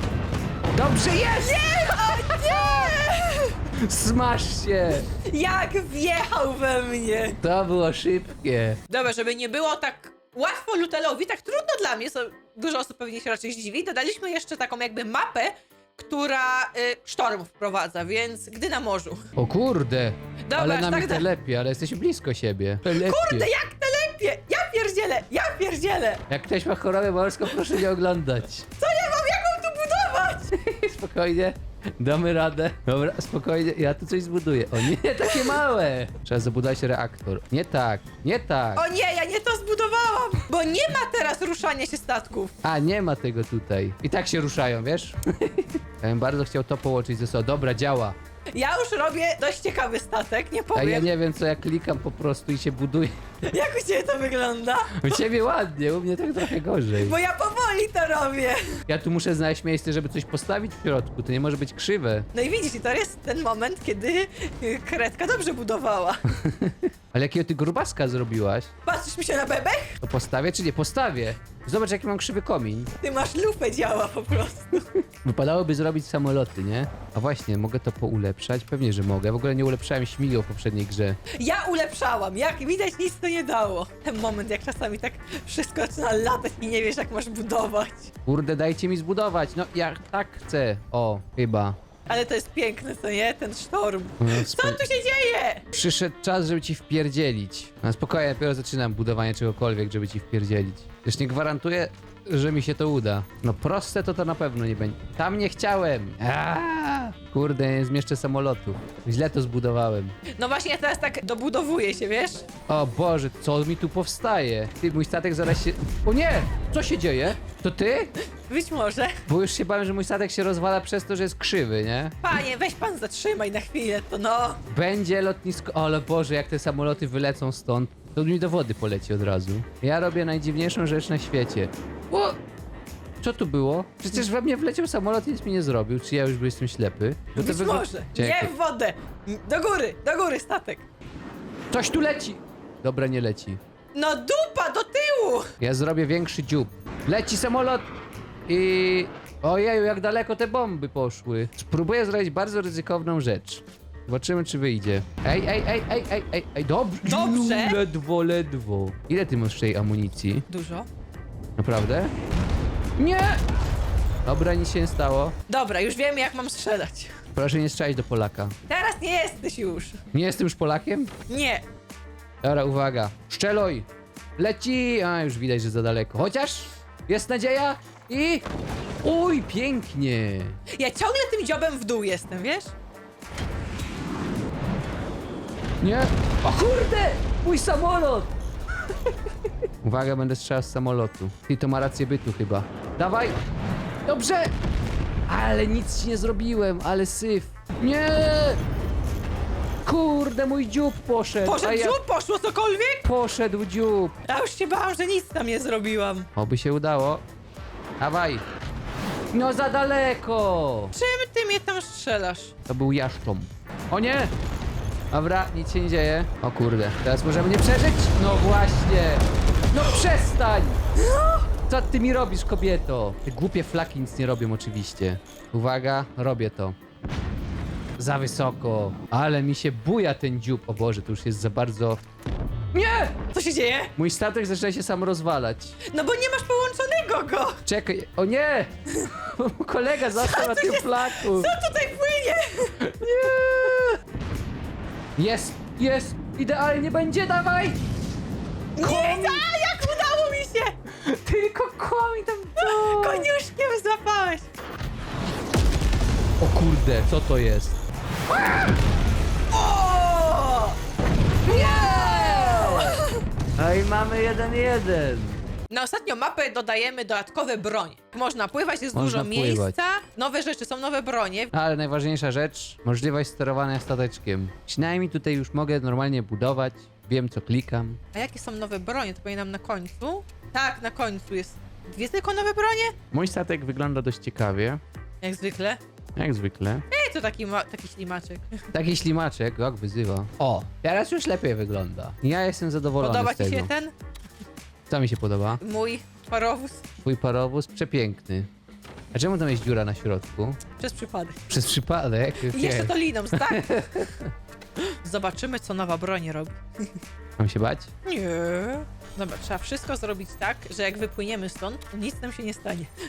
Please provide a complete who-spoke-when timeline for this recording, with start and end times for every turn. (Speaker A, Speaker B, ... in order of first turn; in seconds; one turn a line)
Speaker A: 0.7-2.9
Speaker B: 1.3-3.6
Speaker A: 3.8-5.1
Speaker B: 5.1-7.4
Speaker A: 7.4-8.8
Speaker B: 8.9-19.3
Speaker A: 19.4-23.5
Speaker B: 20.5-21.3
Speaker B: 22.9-26.2
Speaker A: 26.3-28.7
Speaker B: 28.8-30.5
Speaker A: 30.5-38.9
Speaker B: 35.2-35.6
Speaker B: 38.8-42.5
Speaker A: 42.6-48.2
Speaker B: 48.5-51.1
Speaker A: 50.8-53.2
Speaker B: 53.5-55.2
Speaker A: 54.9-57.2
Speaker B: 56.9-58.8
Speaker A: 58.9-62.3
Speaker B: 62.3-66.2
Speaker A: 66.3-68.7
Speaker B: 68.9-70.0
Speaker A: 70.0-72.9
Speaker B: 73.0-74.9
Speaker A: 75.2-81.2
Speaker B: 81.3-88.1
Speaker A: 88.2-91.8
Speaker B: 92.1-95.7
Speaker A: 94.2-94.8
Speaker A: 95.7-110.2
Speaker B: 110.4-112.5
Speaker A: 112.7-118.2
Speaker B: 118.4-119.2
Speaker A: 119.3-122.2
Speaker B: 122.2-124.6
Speaker A: 124.7-132.4
Speaker A: 133.2-138.5
Speaker B: 137.4-140.8
Speaker A: 141.7-143.6
Speaker B: 143.9-145.5
Speaker A: 145.6-147.9
Speaker A: 148.5-160.5
Speaker B: 157.1-157.8
Speaker B: 160.5-160.9
Speaker A: 161.6-162.1
Speaker A: 163.0-163.4
Speaker A: 164.3-165.3
Speaker B: 165.5-167.1
Speaker A: 167.3-168.6
Speaker B: 168.7-170.0
Speaker A: 170.1-171.1
Speaker B: 171.3-171.7
Speaker A: 172.4-173.9
Speaker A: 174.4-178.5
Speaker A: 179.0-180.6
Speaker B: 180.7-182.7
Speaker A: 185.8-188.3
Speaker A: 189.8-193.4
Speaker A: 194.1-194.5
Speaker A: 195.3-198.6
Speaker A: 199.8-202.0
Speaker B: 201.4-203.0
Speaker A: 203.0-204.2
Speaker B: 204.3-206.3
Speaker A: 206.4-207.2
Speaker A: 208.0-208.4
Speaker A: 209.3-210.9
Speaker B: 210.9-212.5
Speaker A: 212.7-214.3
Speaker A: 215.1-220.8
Speaker B: 221.0-221.4
Speaker A: 221.7-226.8
Speaker A: 228.0-232.0
Speaker A: 232.7-233.2
Speaker B: 233.3-233.9
Speaker A: 234.0-235.8
Speaker B: 235.9-237.6
Speaker A: 237.7-241.5
Speaker B: 240.1-242.8
Speaker A: 242.8-244.0
Speaker A: 245.2-247.8
Speaker B: 248.8-250.8
Speaker A: 248.8-249.5
Speaker A: 251.0-253.3
Speaker B: 252.6-254.4
Speaker A: 256.4-257.8
Speaker B: 259.5-260.8
Speaker A: 261.4-263.0
Speaker B: 261.4-263.2
Speaker A: 263.6-265.4
Speaker B: 265.7-271.5
Speaker A: 268.9-269.8
Speaker A: 271.5-278.0
Speaker B: 278.1-282.9
Speaker A: 283.1-284.8
Speaker B: 285.2-285.8
Speaker A: 286.2-286.9
Speaker B: 286.9-288.6
Speaker A: 288.7-293.7
Speaker B: 293.0-293.9
Speaker A: 294.9-295.6
Speaker B: 295.6-296.9
Speaker A: 297.0-298.5
Speaker A: 299.1-300.6
Speaker B: 300.8-301.4
Speaker A: 301.5-304.3
Speaker B: 302.5-303.7
Speaker B: 304.8-306.9
Speaker A: 307.4-307.9
Speaker B: 308.1-312.9